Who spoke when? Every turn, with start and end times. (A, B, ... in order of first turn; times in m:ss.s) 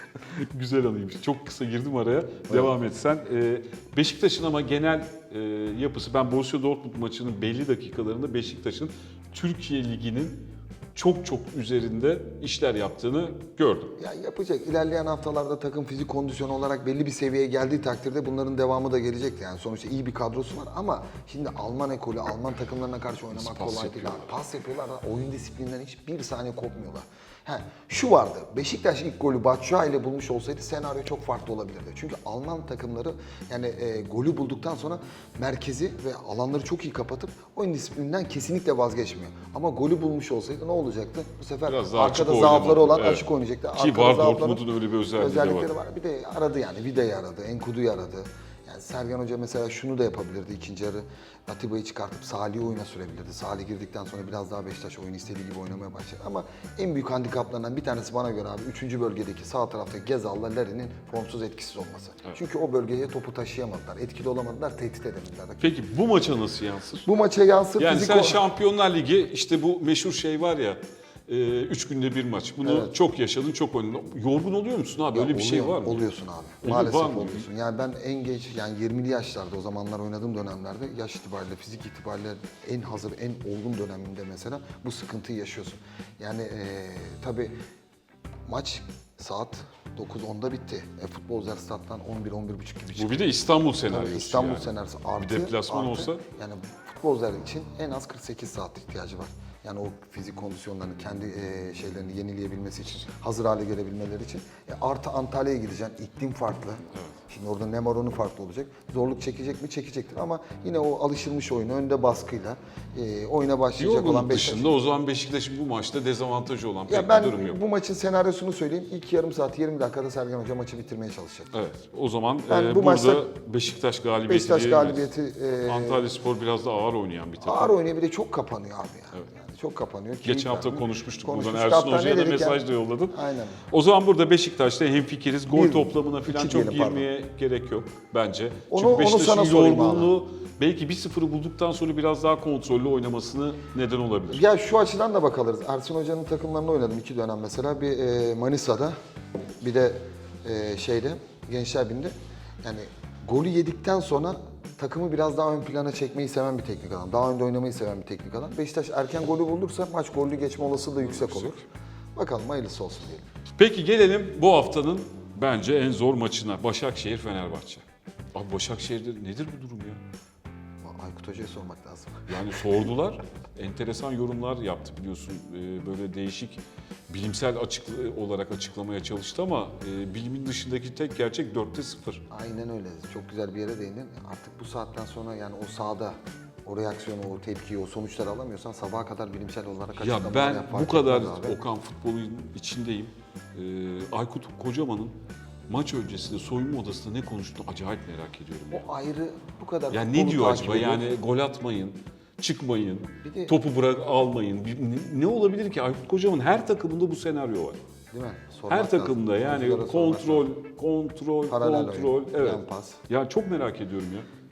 0:00.4-0:13.9 A
0:14.0-0:44.7 B
0:23.3-0:24.4 A
0:41.7-0:45.7 A
0:45.2-1:05.7 B
1:05.6-1:07.1 A
1:07.0-1:08.4 B
1:07.8-1:16.0 A
1:12.6-1:12.9 B
1:15.1-1:27.5 B
1:16.6-1:17.5 A
1:28.5-1:33.3 B
1:33.0-1:36.2 A
1:33.9-1:54.8 B
1:53.8-1:57.6 A
1:56.9-2:01.5 B
2:01.5-2:05.1 A
2:02.5-2:03.2 B
2:04.3-2:06.0 B
2:05.6-2:07.7 A
2:07.4-2:13.6 B
2:10.2-2:13.2 A
2:13.7-2:24.4 A
2:15.5-2:17.1 B
2:18.7-2:20.1 B
2:24.3-2:29.0 B
2:29.6-2:43.2 B
2:41.0-2:41.6 A
2:43.6-2:47.8 A
2:48.4-2:50.0 A
2:50.8-2:52.9 B
2:52.3-3:02.2 A
3:02.3-3:11.6 B
3:10.0-3:15.2 A
3:15.7-3:18.9 A
3:18.7-3:21.0 B
3:19.9-3:27.8 A
3:23.2-3:23.6 B
3:28.1-3:30.5 B
3:28.7-3:34.3 A
3:31.5-3:33.0 B